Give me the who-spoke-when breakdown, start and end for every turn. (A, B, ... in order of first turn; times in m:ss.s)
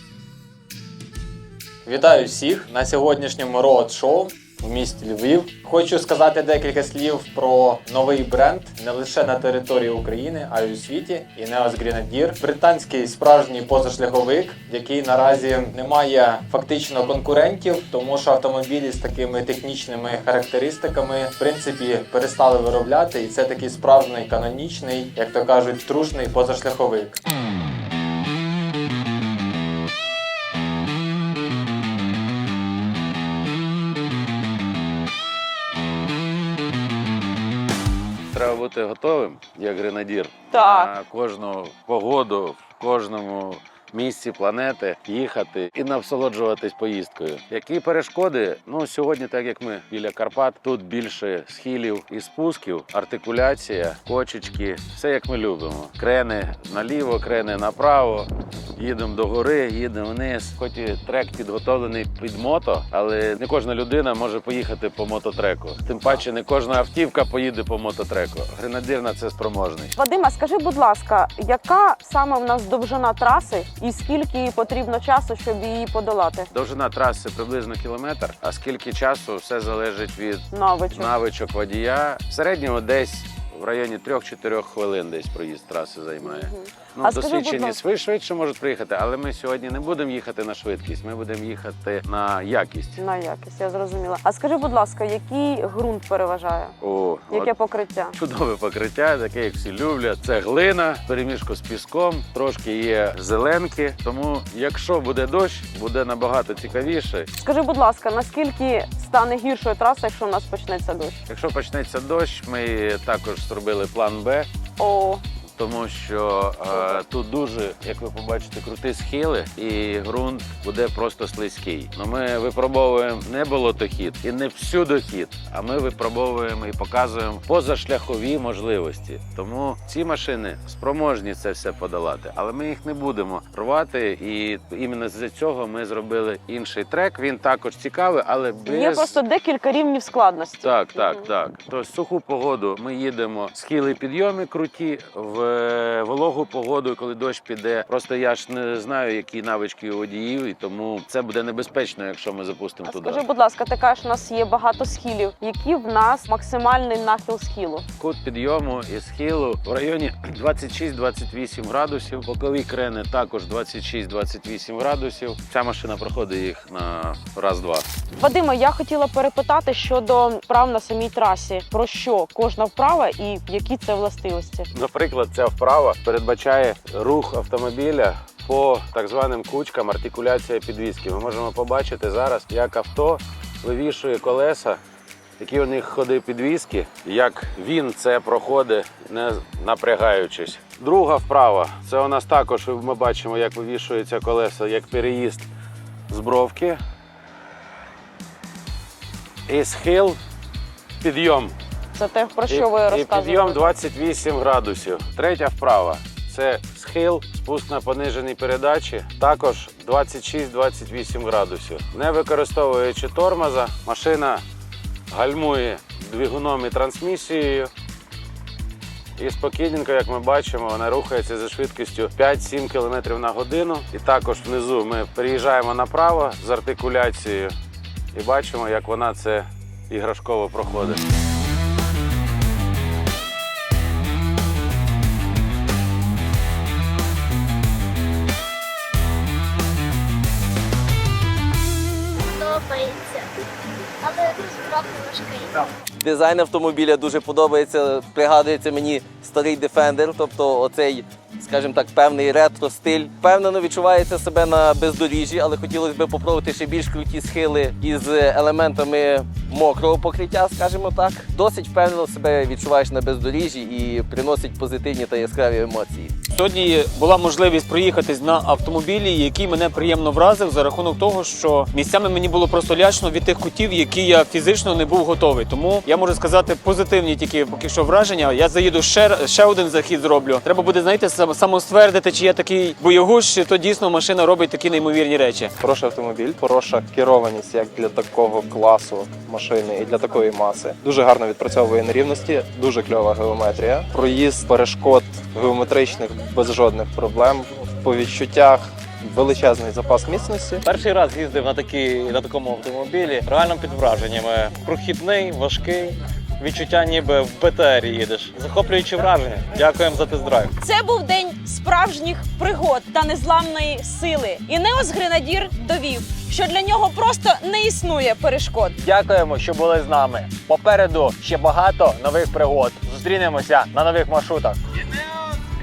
0:01.9-0:27.2 A
0:38.3-1:10.0 B
0:40.5-0:40.9 C
1:10.0-1:16.5 C
1:16.5-1:33.0 B
1:20.5-1:21.2 C
1:26.2-1:27.8 C
1:33.0-1:36.8 C
1:36.8-1:37.5 B
1:37.3-1:38.2 C
1:38.2-1:47.3 B
1:47.4-1:51.2 C
1:51.3-1:54.5 B
1:54.8-1:55.2 C
1:55.6-2:19.2 B
2:18.6-2:21.2 C
2:20.6-2:33.2 B
2:32.9-2:37.9 C
2:38.0-2:47.9 B
2:48.2-2:54.7 C
2:54.7-3:04.8 B
3:05.4-3:15.5 B
3:16.1-3:16.8 B
3:19.5-3:20.2 B
3:21.0-3:21.6 B
3:22.0-3:23.7 C
3:22.5-3:34.4 B
3:35.1-3:37.7 B
3:39.2-3:47.5 B
3:48.1-3:51.0 B
4:02.2-4:03.4 D
4:04.0-4:05.5 D
4:06.0-4:26.2 E
4:26.3-4:45.5 F
4:45.6-5:00.6 G
5:00.6-5:10.5 H
5:10.6-5:18.8 C
5:18.8-5:24.6 A